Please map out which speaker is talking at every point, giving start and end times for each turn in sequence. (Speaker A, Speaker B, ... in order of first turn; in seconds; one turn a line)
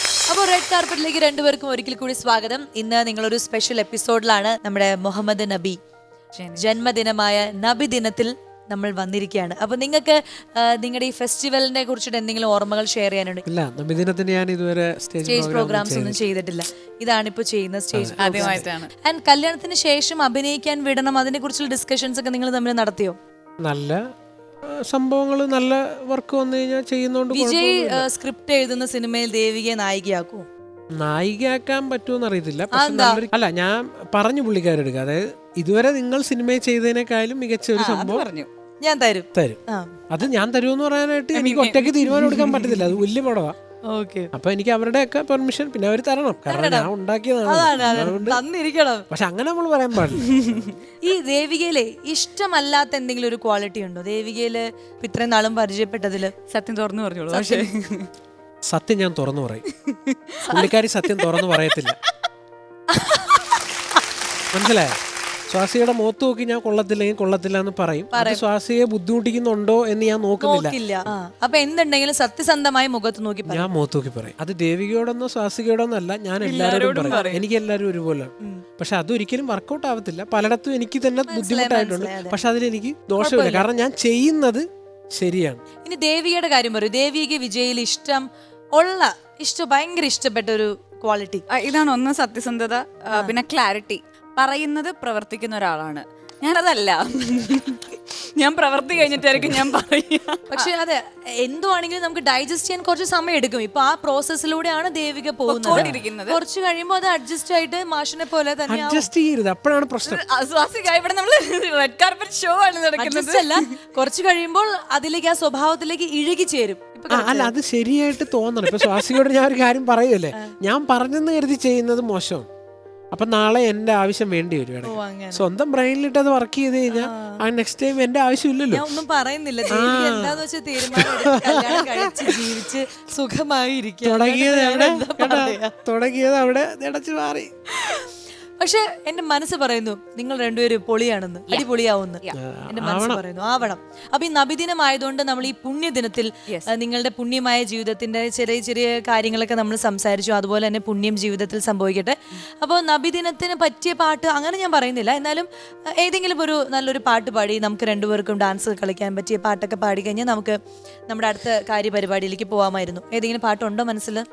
Speaker A: 0.3-5.8
Speaker B: 6.3-6.6
Speaker A: 6.5-13.4
Speaker C: 13.4-16.2
Speaker A: 15.2-23.1
Speaker C: 17.9-18.6
Speaker B: 18.2-18.9
Speaker C: 23.6-24.0
Speaker C: 24.6-28.1
Speaker A: 27.3-30.4
Speaker C: 30.9-38.3
Speaker A: 32.7-33.2
Speaker B: 37.8-38.5
Speaker A: 38.8-39.9
Speaker C: 39.3-43.5
Speaker B: 41.3-42.7
Speaker A: 42.2-42.8
Speaker A: 43.9-44.3
Speaker C: 44.3-48.4
Speaker A: 46.5-46.9
Speaker A: 47.4-49.1
Speaker C: 49.1-50.6
Speaker B: 50.2-50.7
Speaker A: 51.0-56.3
Speaker B: 56.5-58.1
Speaker C: 57.3-57.7
Speaker C: 58.7-59.6
Speaker B: 59.7-60.7
Speaker C: 60.5-62.0
Speaker A: 62.9-63.6
Speaker C: 64.5-65.0
Speaker C: 65.5-71.1
Speaker A: 68.1-68.4
Speaker A: 70.4-73.7
Speaker C: 73.5-85.6
Speaker B: 76.4-77.4
Speaker A: 77.1-77.4
Speaker A: 81.3-82.4
Speaker A: 83.2-83.7
Speaker A: 85.8-91.5
Speaker B: 91.5-100.7
Speaker C: 98.9-99.6
Speaker A: 100.5-109.1
Speaker B: 105.5-106.4
Speaker C: 105.7-106.0
Speaker C: 108.7-110.2
Speaker B: 110.0-113.7
Speaker A: 113.0-117.5
Speaker C: 117.1-122.5
Speaker C: 123.1-128.8
Speaker A: 124.8-125.5
Speaker A: 126.9-127.4
Speaker A: 128.7-135.8
Speaker C: 129.7-130.4
Speaker C: 130.9-132.7
Speaker C: 134.0-137.5
Speaker A: 137.7-164.2
Speaker C: 142.3-143.2